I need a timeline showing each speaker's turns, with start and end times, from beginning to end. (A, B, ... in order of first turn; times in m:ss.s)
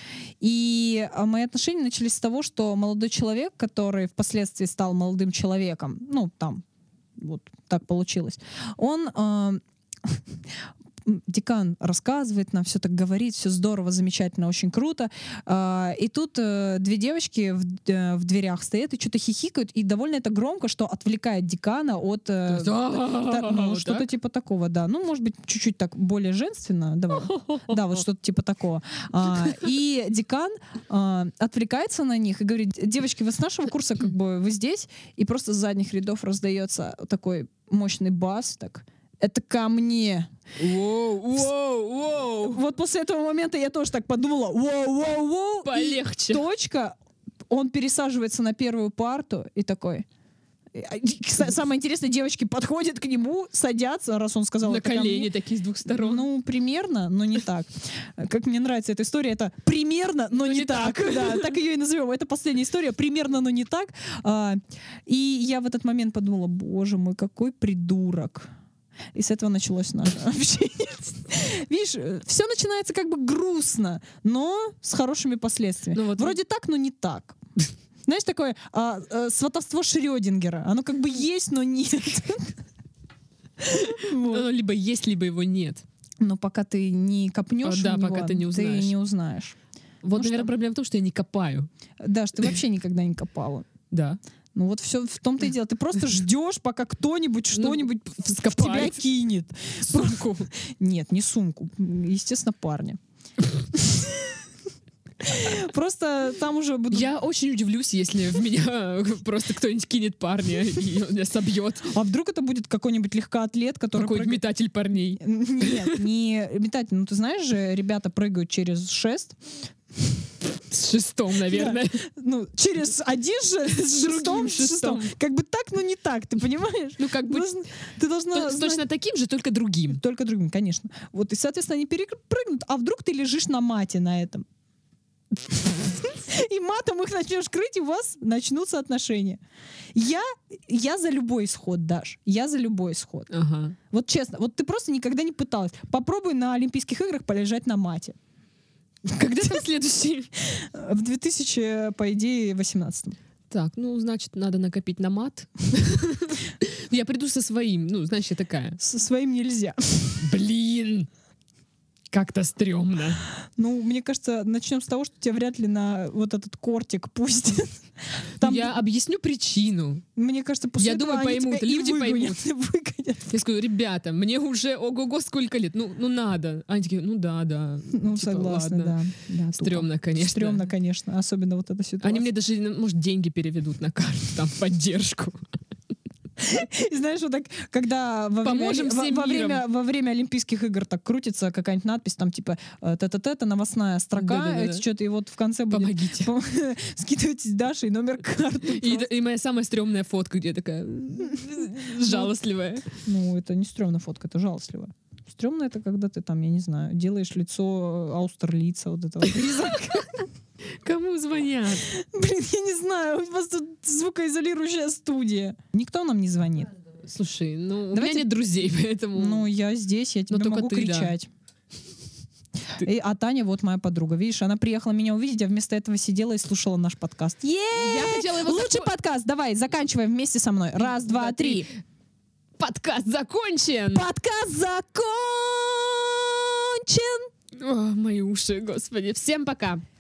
0:00.4-0:06.6 A
0:07.2-0:10.2 A
0:11.0-0:40.3 A
0:22.5-0:24.1 B
0:27.1-0:27.8 B
0:40.6-0:42.6 B
0:42.4-0:47.0 A
0:45.6-0:46.5 B
0:47.5-0:50.1 A
0:50.7-0:55.3 A
0:54.6-0:56.3 B
0:55.8-1:08.5 A
1:00.4-1:01.6 B
1:09.1-1:17.4 A
1:15.9-1:16.4 B
1:18.1-1:22.6 A
1:23.6-1:24.5 A
1:23.7-1:25.8 B
1:26.2-1:29.6 A
1:27.6-1:28.9 B
1:30.0-1:31.7 B
1:30.2-1:30.5 A
1:32.0-1:33.7 A
1:33.9-1:34.2 B
1:34.6-1:43.0 A
1:37.6-1:39.0 B
1:39.9-1:40.5 B
1:43.7-1:44.4 A
1:45.2-1:47.1 A
1:46.9-1:51.9 B
1:51.9-1:54.4 A
1:53.9-1:56.0 B
1:55.2-1:59.4 A
2:00.7-2:02.1 B
2:01.5-2:08.8 A
2:03.9-2:05.1 B
2:07.0-2:07.5 B
2:08.3-2:10.0 B
2:09.9-2:14.5 A
2:15.4-2:19.4 A
2:20.0-2:23.3 A
2:23.3-2:23.8 B
2:23.9-2:28.2 A
2:29.0-2:30.3 B
2:29.4-2:29.6 A
2:30.4-2:33.2 A
2:33.5-2:38.8 B
2:38.8-2:40.3 A
2:40.2-2:41.1 B
2:42.1-2:43.2 B
2:43.6-2:48.8 A
2:48.4-2:50.0 B
2:50.2-2:53.4 A
2:50.8-2:52.4 B
2:53.3-2:59.0 B
2:57.9-3:02.3 A
2:59.5-3:00.7 B
3:02.0-3:05.4 B
3:06.4-3:19.1 A
3:08.4-3:09.6 B
3:14.2-3:14.8 B
3:15.7-3:16.3 B
3:18.6-3:22.9 B
3:21.3-3:22.3 A
3:22.9-3:30.3 A
3:29.4-3:30.1 B
3:30.8-3:31.9 B
3:31.9-3:36.7 A
3:37.0-3:39.5 B
3:37.9-3:38.3 A
3:39.2-3:41.3 A
3:40.3-3:41.2 B
3:42.8-3:51.7 A
3:47.7-3:48.9 B
3:50.8-3:51.8 B
3:52.6-3:54.1 B
3:53.9-3:57.3 A
3:57.6-3:59.8 B